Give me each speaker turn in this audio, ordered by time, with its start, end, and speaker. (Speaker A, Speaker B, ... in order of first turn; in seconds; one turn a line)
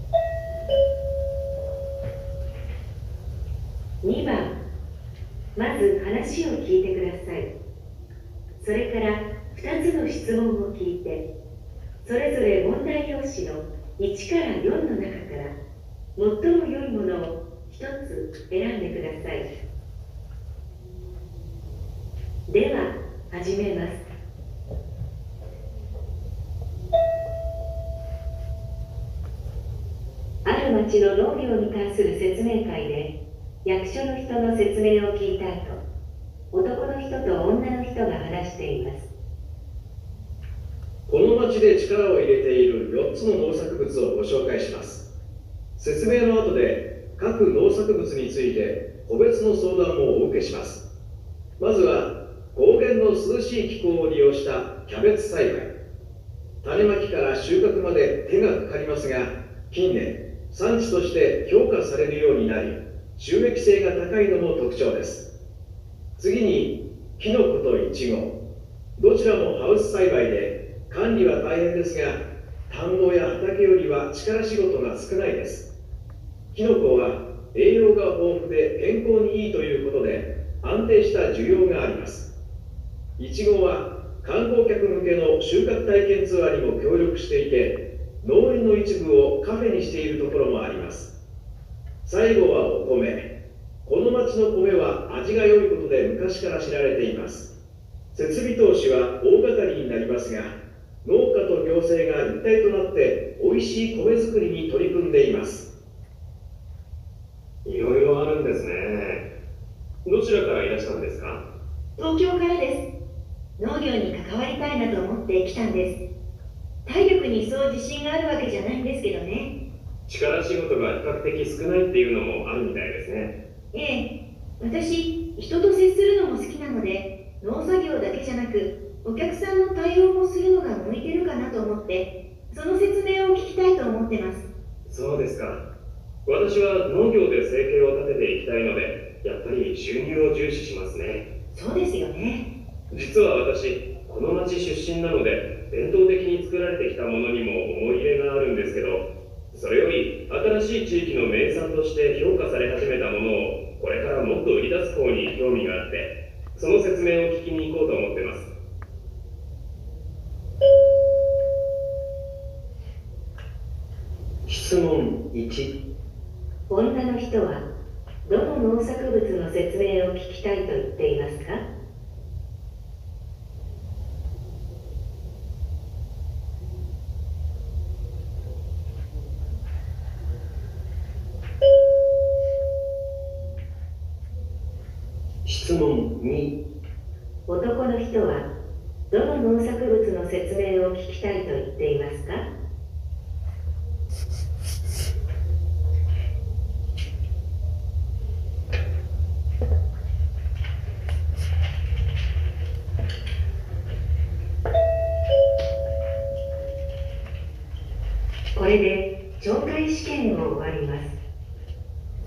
Speaker A: 4.0-4.6
Speaker A: 5.5-7.5
Speaker A: 8.6-11.2
Speaker A: 12.0-15.6
Speaker A: 16.1-19.5
Speaker A: 22.5-24.0
Speaker A: 30.4-35.8
Speaker A: 36.5-39.1
Speaker B: 41.1-45.0
Speaker B: 45.8-50.8
Speaker B: 51.6-55.7
Speaker B: 56.6-65.2
Speaker B: 66.2-68.3
Speaker B: 69.0-75.7
Speaker B: 76.5-82.3
Speaker B: 83.2-91.1
Speaker B: 92.0-93.3
Speaker B: 93.8-97.5
Speaker B: 98.1-105.7
Speaker C: 107.6-109.3
Speaker C: 110.0-111.4
Speaker D: 112.0-112.8
Speaker D: 113.6-116.0
Speaker D: 116.8-119.5
Speaker C: 120.1-123.3
Speaker D: 123.7-134.4
Speaker C: 134.9-135.6
Speaker C: 136.2-141.2
Speaker D: 141.5-142.5
Speaker C: 142.9-158.5
Speaker E: 164.4-165.7
Speaker A: 166.7-167.7
Speaker A: 168.2-171.7
Speaker E: 185.4-186.6
Speaker A: 187.5-188.5
Speaker A: 189.1-192.5
Speaker A: 208.5-211.2